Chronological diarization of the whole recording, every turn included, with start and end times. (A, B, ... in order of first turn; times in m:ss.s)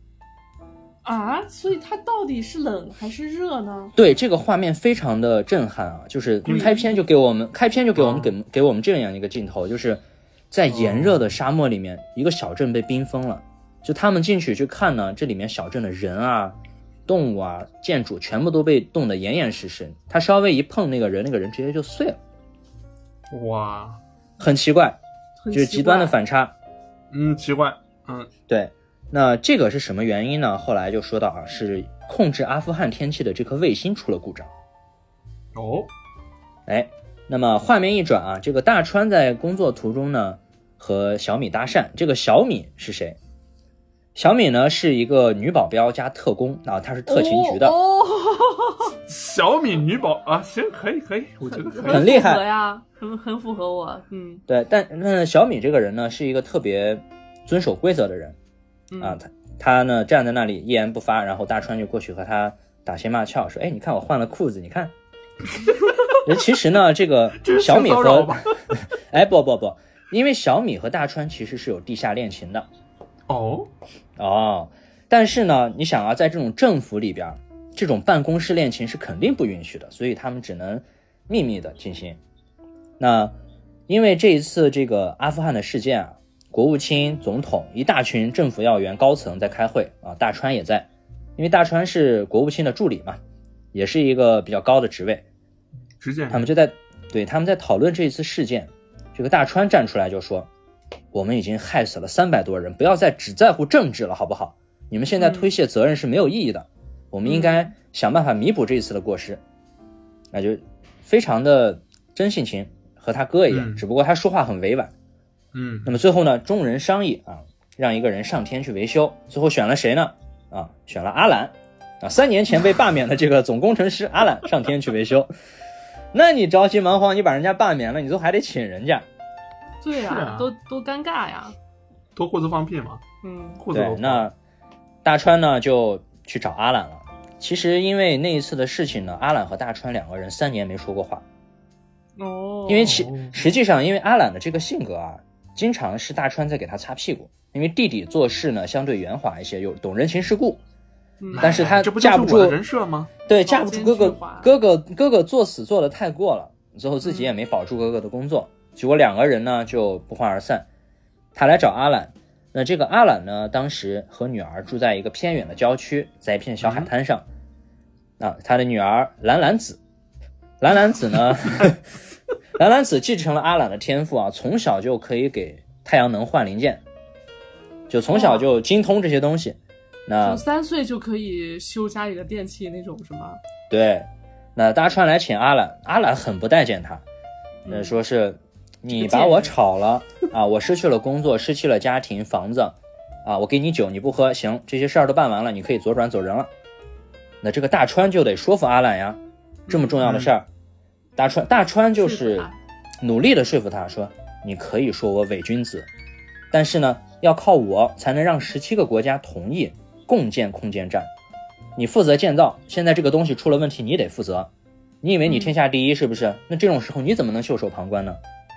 0:01.0-0:03.9 A
0:04.0-0:16.6 B
0:06.4-0:06.8 C
0:08.0-0:08.3 C
0:10.7-0:11.3 C
0:17.1-0:22.2 B
0:23.3-0:24.0 C
0:24.4-0:25.0 B
0:25.4-0:26.2 A
0:25.5-0:26.5 B
0:27.1-0:28.3 C
0:28.5-0:34.5 B
0:35.6-0:35.9 C
0:36.7-0:43.2 B
0:44.2-0:47.8 B
0:47.1-0:49.0 A
0:49.1-0:52.1 C
0:51.6-0:54.4 A
0:51.9-0:52.4 B
0:54.5-0:58.4 B
0:58.9-0:59.2 A
0:59.0-1:04.9 B
1:06.2-1:12.7 B
1:07.3-1:08.6 C
1:13.3-1:13.7 C
1:14.2-1:22.2 B
1:23.0-1:23.3 B
1:23.9-1:33.2 B
1:33.7-1:35.2 B
1:36.0-1:36.5 C
1:36.3-1:40.5 B
1:41.1-1:49.4 B
1:45.2-1:45.5 A
1:47.2-1:47.7 A
1:50.3-1:54.9 B
1:53.5-1:53.8 C
1:55.5-1:56.0 C
1:55.9-2:05.3 B
2:06.1-2:09.0 B
2:09.8-2:11.6 A
2:10.0-2:10.5 C
2:12.2-2:13.0 C
2:13.2-2:13.6 A
2:13.6-2:14.3 C
2:13.7-2:14.4 B
2:15.0-2:21.2 B
2:22.2-2:23.0 A
2:22.7-2:30.6 B
2:22.8-2:23.3 C
2:31.2-2:31.5 A
2:31.3-2:33.1 C
2:31.4-2:32.6 B
2:33.3-2:40.7 B
2:33.4-2:34.5 A
2:37.0-2:37.3 A
2:41.4-2:47.2 B
2:46.6-2:46.9 C
2:48.2-2:49.8 B
2:50.6-2:51.8 B
2:52.6-2:56.8 B
2:57.9-3:00.4 B
2:58.1-2:58.5 A
3:00.2-3:03.4 A
3:03.7-3:07.0 B
3:07.7-3:08.0 A
3:07.7-3:16.5 B
3:08.9-3:09.5 A
3:17.4-3:20.5 B
3:19.7-3:20.3 C
3:21.2-3:22.5 B
3:22.0-3:22.6 A
3:23.0-3:25.9 B
3:26.5-3:31.1 B
3:31.8-3:34.5 B
3:35.0-3:38.2 B
3:35.3-3:35.5 A